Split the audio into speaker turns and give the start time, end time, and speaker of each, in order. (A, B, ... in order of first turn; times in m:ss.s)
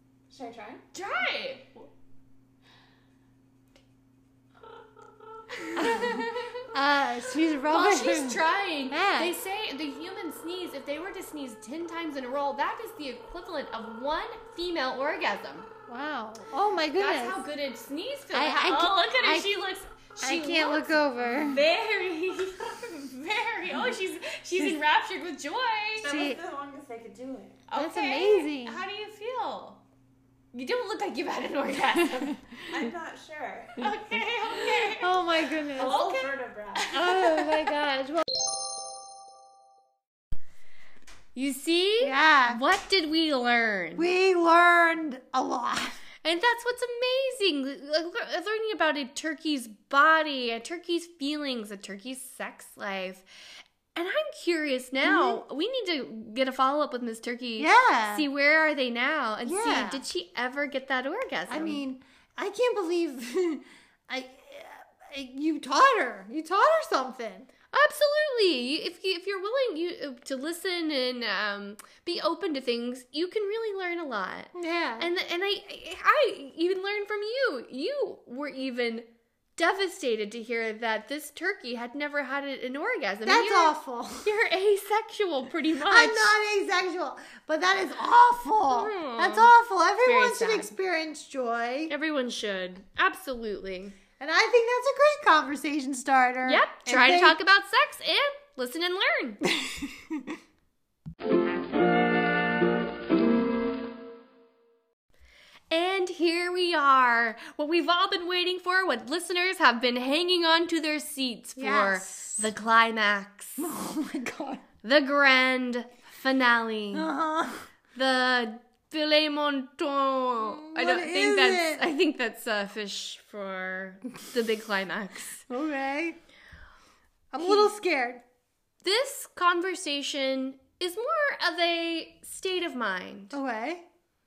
0:00.3-0:00.8 A
0:00.9-0:01.8 B
0:05.5-0:06.7 B
0:05.8-0:09.3 C
0:07.7-0:15.7 B
0:15.9-0:17.4 C
0:17.0-0:26.2 B
0:18.3-0:19.5 C
0:20.2-0:21.6 C
0:26.0-0:27.6 A
0:26.0-0:26.4 C
0:27.7-0:29.8 B
0:27.7-0:28.8 C
0:30.5-0:32.4 B
0:32.7-0:33.9 A
0:33.8-0:35.1 B
0:34.9-0:36.0 C
0:35.8-0:37.1 A
0:35.8-0:38.1 B
0:36.9-0:38.2 C
0:41.3-0:44.1 B
0:42.0-0:42.6 C
0:44.0-0:46.0 C
0:46.2-0:53.2 B
0:53.9-1:01.8 B
0:55.0-0:55.4 C
0:57.6-0:58.3 C
0:59.4-1:00.0 C
1:01.5-1:07.5 C
1:07.7-1:26.3 B
1:14.5-1:15.1 C
1:23.2-1:24.3 C
1:25.8-1:31.9 C
1:28.7-1:29.5 B
1:30.0-1:30.7 B
1:31.9-1:34.0 B
1:34.2-1:37.4 C
1:36.4-1:39.4 B
1:45.7-1:53.7 B
1:51.6-1:52.5 C
1:53.6-1:54.6 C
1:54.8-1:57.1 B
1:56.9-1:57.6 C
1:57.9-2:05.4 B
2:00.4-2:01.8 C
2:05.5-2:06.2 C
2:07.3-2:08.2 C
2:07.4-2:07.7 B
2:08.8-2:13.4 B
2:13.3-2:13.8 C